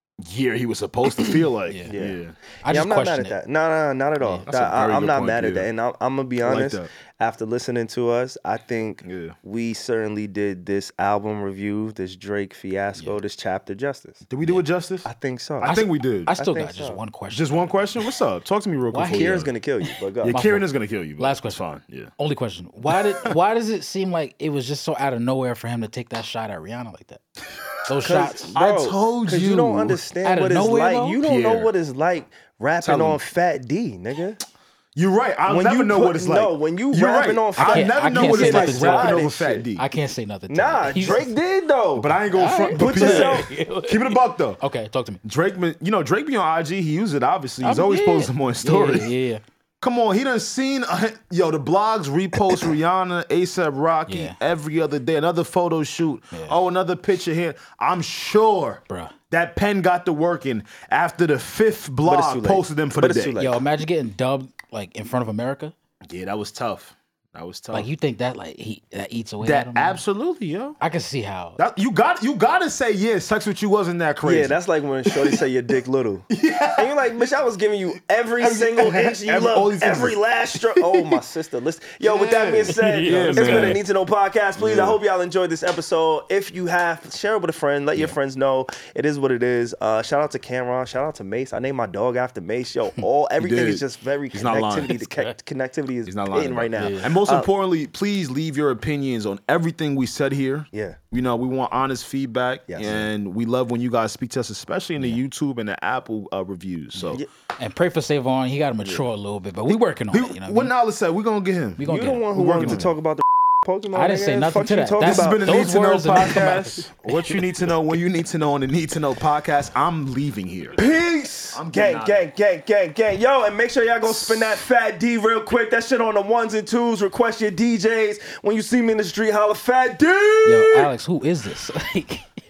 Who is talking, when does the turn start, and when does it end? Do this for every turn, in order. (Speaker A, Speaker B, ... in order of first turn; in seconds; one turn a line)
Speaker A: 0.2-2.4
Speaker B: 1.7-1.9
Speaker C: 1.9-14.2
Speaker B: 2.6-3.4
Speaker B: 4.2-4.5
Speaker A: 4.5-5.7
Speaker A: 6.4-6.9
Speaker A: 9.0-9.4
Speaker A: 14.3-15.1
Speaker C: 15.1-15.8
Speaker A: 15.6-16.3
Speaker B: 15.6-17.5
Speaker C: 16.3-17.0
Speaker A: 17.3-19.5
Speaker B: 18.9-19.4
Speaker C: 19.1-20.4
Speaker A: 20.2-22.1
Speaker B: 20.3-21.6
Speaker B: 22.2-27.2
Speaker A: 22.9-23.3
Speaker B: 27.9-28.5
Speaker A: 27.9-30.0
Speaker C: 28.0-34.4
Speaker B: 30.2-31.2
Speaker A: 31.2-31.7
Speaker A: 32.8-33.2
Speaker A: 35.0-39.9
Speaker C: 35.5-39.6
Speaker B: 37.6-41.3
Speaker C: 40.5-42.1
Speaker A: 42.0-44.6
Speaker B: 42.3-45.2
Speaker C: 42.7-43.5
Speaker A: 45.2-49.1
Speaker B: 47.6-49.4
Speaker A: 49.8-63.4
Speaker B: 54.1-54.4
Speaker B: 56.3-56.6
Speaker B: 58.9-59.2
Speaker C: 62.1-63.6
Speaker B: 63.4-65.7
Speaker A: 66.1-67.9
Speaker B: 67.7-70.0
Speaker A: 69.4-70.8
Speaker B: 70.8-71.6
Speaker A: 71.6-75.4
Speaker C: 74.2-97.5
Speaker A: 76.3-77.2
Speaker A: 78.4-81.1
Speaker A: 82.0-83.8
Speaker B: 82.7-83.8
Speaker A: 84.6-85.0
Speaker A: 93.4-94.9
Speaker B: 94.9-95.3
Speaker A: 96.1-107.2
Speaker B: 96.8-97.1
Speaker C: 100.7-101.0
Speaker C: 102.7-103.1
Speaker B: 107.0-110.7
Speaker A: 109.7-112.9
Speaker B: 111.8-112.8
Speaker C: 111.8-115.5
Speaker B: 113.9-117.2
Speaker A: 115.0-120.8
Speaker C: 120.8-130.5
Speaker A: 121.5-122.2
Speaker A: 124.1-124.6
Speaker A: 130.4-130.9
Speaker B: 130.4-132.3